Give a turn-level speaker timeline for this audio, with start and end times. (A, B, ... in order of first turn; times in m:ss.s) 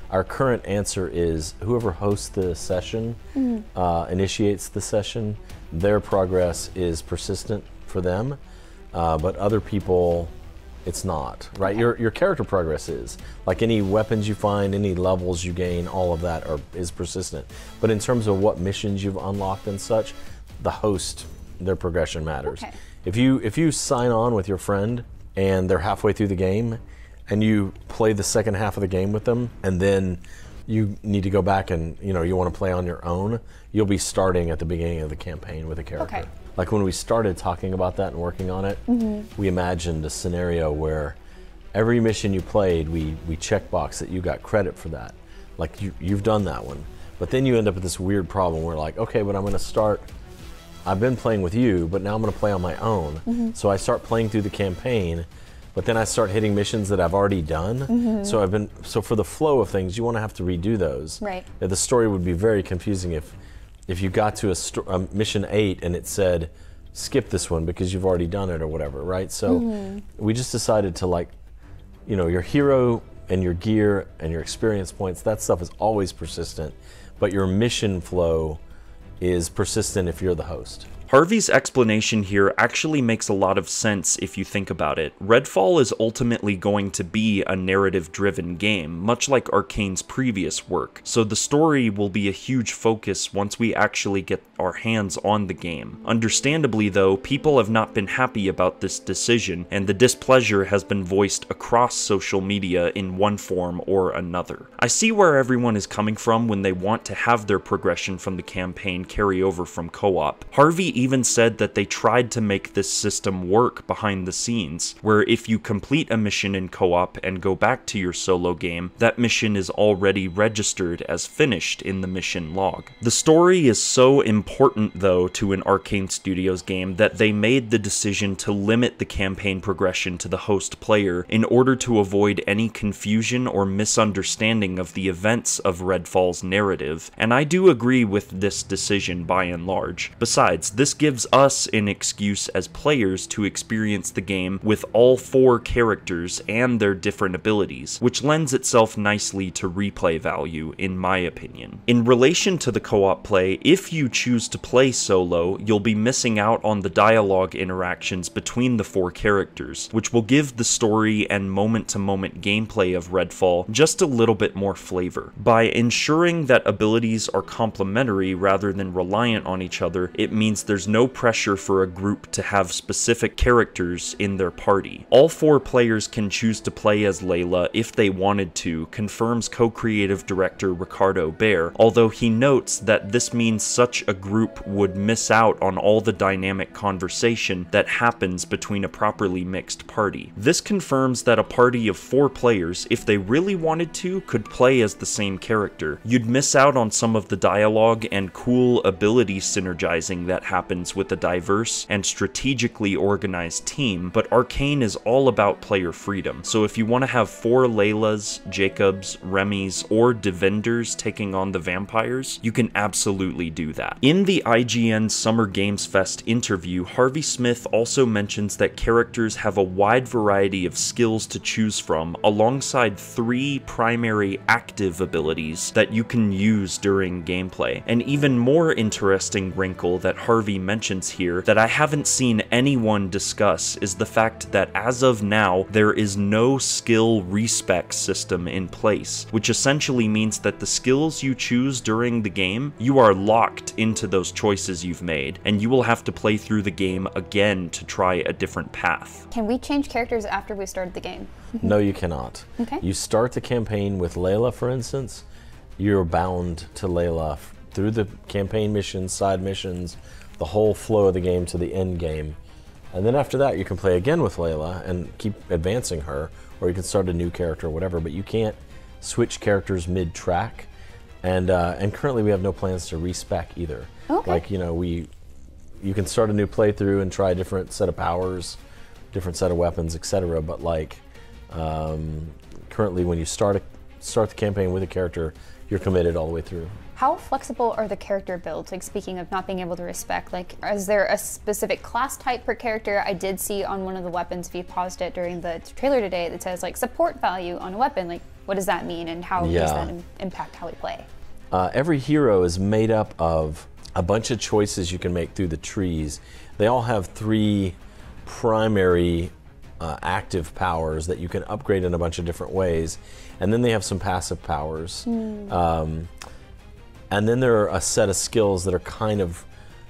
0:00.1-0:03.2 A
0:03.3-0:03.6 B
0:03.7-0:08.4 A
0:08.9-0:10.3 A
0:10.8-0:41.2 A
0:22.4-0:22.8 B
0:36.0-0:36.3 B
0:38.9-0:39.3 B
0:41.7-0:50.1 A
0:50.8-1:03.3 A
0:53.3-0:53.5 B
0:57.9-0:58.4 B
1:01.2-1:01.4 B
1:03.9-1:11.3 A
1:09.5-1:10.0 B
1:12.0-1:18.6 A
1:19.2-1:20.9 A
1:21.1-4:09.2 C
4:09.3-4:11.7 B
4:11.6-4:15.2 A
4:12.6-4:12.8 B
4:15.8-4:22.4 A
4:22.9-4:30.7 A
4:31.2-4:35.1 A
4:34.1-4:34.4 B
4:35.8-4:38.6 A
4:39.1-4:46.8 A
4:47.0-5:01.1 B
4:59.4-4:59.9 A
5:01.5-5:16.1 A
5:15.0-5:15.5 B
5:17.1-5:19.4 A